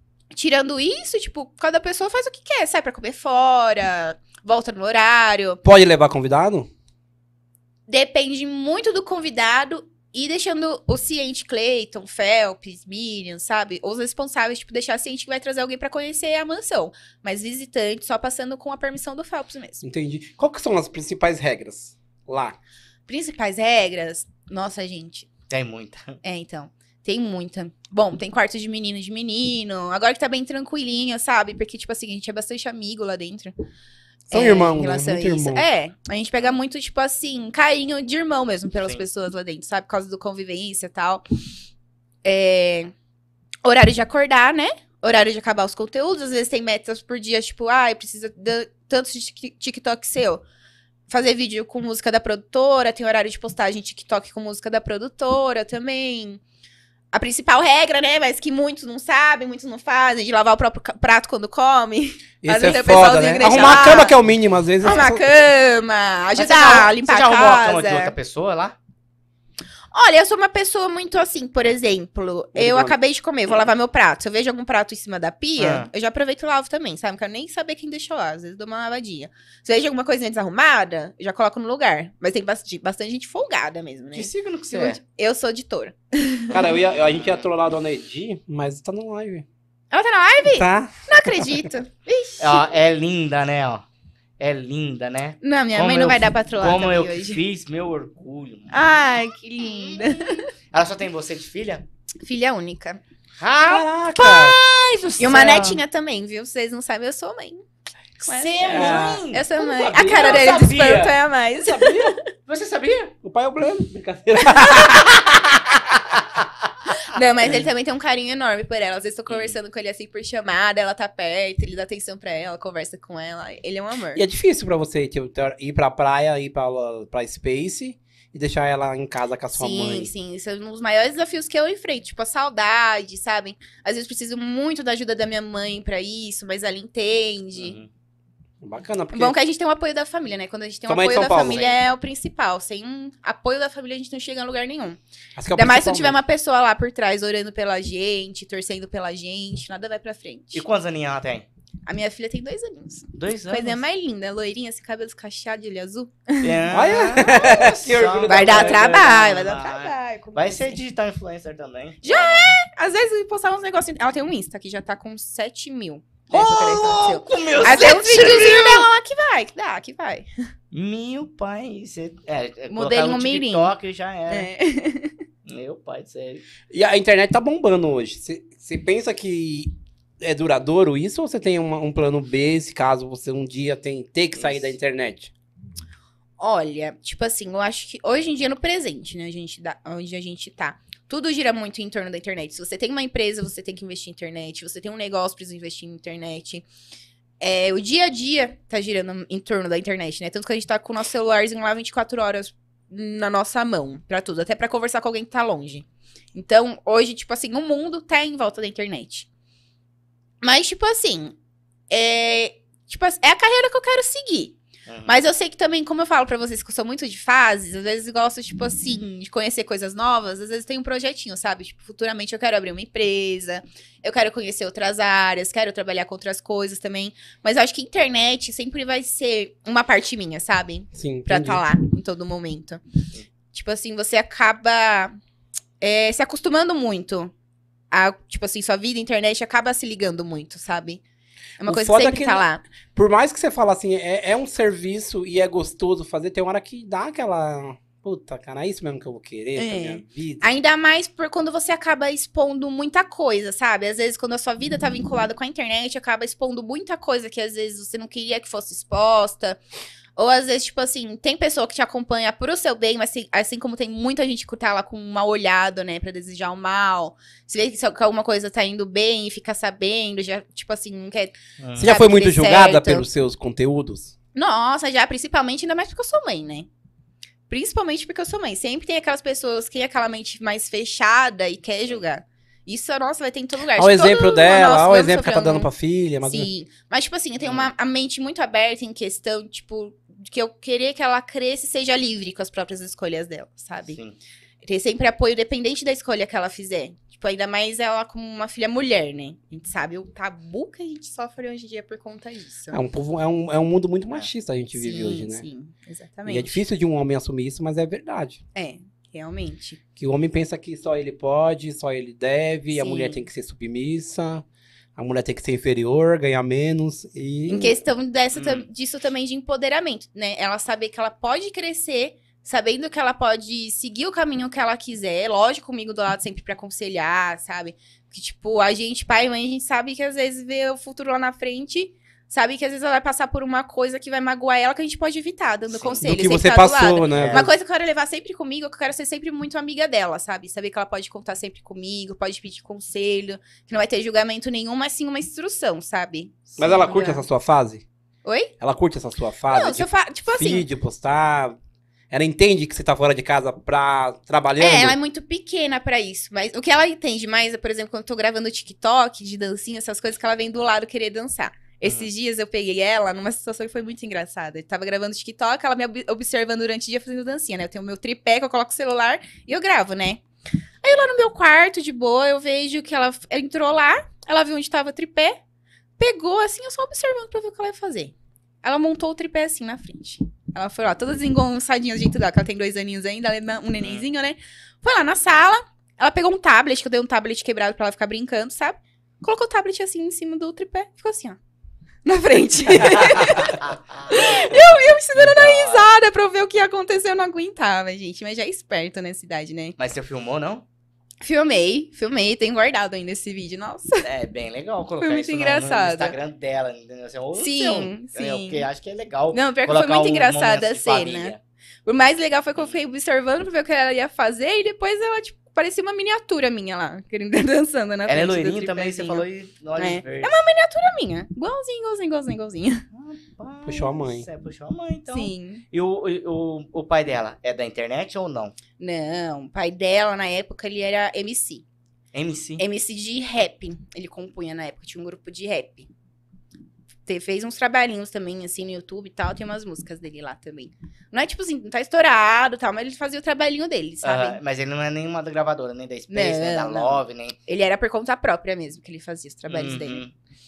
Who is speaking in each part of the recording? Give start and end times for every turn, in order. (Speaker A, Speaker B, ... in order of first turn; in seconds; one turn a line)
Speaker A: 0.3-5.6
Speaker B: 5.6-6.7
Speaker A: 7.9-19.8
Speaker B: 19.8-22.6
Speaker A: 23.1-25.3
Speaker C: 25.5-26.2
Speaker A: 26.2-33.5
Speaker B: 34.3-35.6
Speaker A: 34.3-41.2
Speaker C: 38.8-39.0
Speaker A: 42.2-42.9
Speaker A: 43.6-50.4
Speaker A: 51.1-56.4
Speaker A: 57.1-64.1
Speaker B: 62.4-65.2
Speaker C: 63.4-64.1
Speaker A: 64.8-68.1
Speaker C: 66.3-68.8
Speaker A: 69.9-86.6
Speaker B: 72.5-72.9
Speaker C: 75.6-75.9
Speaker C: 84.1-85.0
Speaker B: 86.5-89.4
Speaker C: 86.9-87.5
Speaker A: 89.9-92.7
Speaker B: 90.5-91.7
Speaker C: 92.4-93.8
Speaker C: 94.4-98.8
Speaker A: 95.4-97.4
Speaker A: 98.7-100.5
Speaker C: 99.9-100.2
Speaker C: 100.7-101.8
Speaker A: 102.2-103.0
Speaker C: 103.4-105.8
Speaker B: 103.7-104.6
Speaker A: 105.2-107.6
Speaker A: 108.2-112.3
Speaker C: 108.2-111.2
Speaker B: 108.6-110.6
Speaker B: 111.6-112.2
Speaker C: 112.5-113.1
Speaker B: 113.2-115.2
Speaker A: 114.4-115.1
Speaker A: 117.0-124.2
Speaker C: 117.4-117.7
Speaker C: 119.3-119.6
Speaker B: 124.1-130.1
Speaker A: 129.5-137.8
Speaker C: 137.6-137.9
Speaker B: 138.6-139.3
Speaker A: 139.1-145.0
Speaker B: 140.9-141.6
Speaker C: 141.4-141.8
Speaker B: 145.3-146.2
Speaker A: 145.5-150.6
Speaker C: 150.5-151.4
Speaker A: 151.8-156.6
Speaker C: 153.1-153.8
Speaker C: 156.4-162.6
Speaker B: 156.7-159.0
Speaker A: 158.2-160.8
Speaker A: 162.0-170.3
Speaker C: 166.3-168.9
Speaker C: 170.7-174.5
Speaker A: 172.7-173.7
Speaker A: 174.3-175.2
Speaker C: 175.4-176.4
Speaker B: 176.7-185.3
Speaker C: 184.3-184.7
Speaker A: 186.4-196.7
Speaker A: 197.4-209.3
Speaker A: 210.4-211.3
Speaker A: 211.9-232.8
Speaker C: 214.9-215.1
Speaker B: 230.9-231.6
Speaker A: 233.5-235.1
Speaker A: 235.8-237.3
Speaker A: 237.9-241.0
Speaker A: 241.6-242.6
Speaker B: 241.6-250.4
Speaker A: 249.6-259.6
Speaker A: 260.1-273.1
Speaker C: 271.6-271.9
Speaker B: 271.8-274.1
Speaker A: 274.3-276.7
Speaker A: 277.5-285.7
Speaker B: 283.8-286.5
Speaker A: 286.2-294.0
Speaker C: 287.4-287.7
Speaker C: 293.9-294.2
Speaker A: 294.6-302.8
Speaker B: 302.7-305.4
Speaker A: 304.7-306.6
Speaker B: 306.3-308.4
Speaker A: 308.5-309.8
Speaker B: 310.0-314.4
Speaker A: 312.7-313.2
Speaker B: 314.9-317.7
Speaker A: 317.5-347.2
Speaker C: 318.3-318.6
Speaker C: 335.7-336.0
Speaker B: 336.0-337.5
Speaker C: 337.1-337.5
Speaker B: 346.6-347.8
Speaker A: 348.2-348.5
Speaker B: 348.6-351.6
Speaker A: 349.5-350.7
Speaker B: 352.1-354.9
Speaker A: 354.6-370.2
Speaker C: 361.8-362.1
Speaker A: 370.8-375.4
Speaker A: 376.0-391.4
Speaker A: 392.0-399.8
Speaker C: 393.2-395.9
Speaker C: 399.8-400.6
Speaker A: 401.2-404.1
Speaker C: 404.0-411.4
Speaker A: 405.0-406.1
Speaker A: 407.4-408.7
Speaker A: 409.3-422.9
Speaker C: 418.1-420.4
Speaker C: 422.9-428.6
Speaker B: 423.6-424.3
Speaker A: 425.1-425.6
Speaker A: 428.8-431.6
Speaker C: 432.1-432.6
Speaker A: 432.6-435.9
Speaker A: 437.1-444.4
Speaker C: 444.0-447.4
Speaker A: 446.1-450.0
Speaker C: 449.5-450.1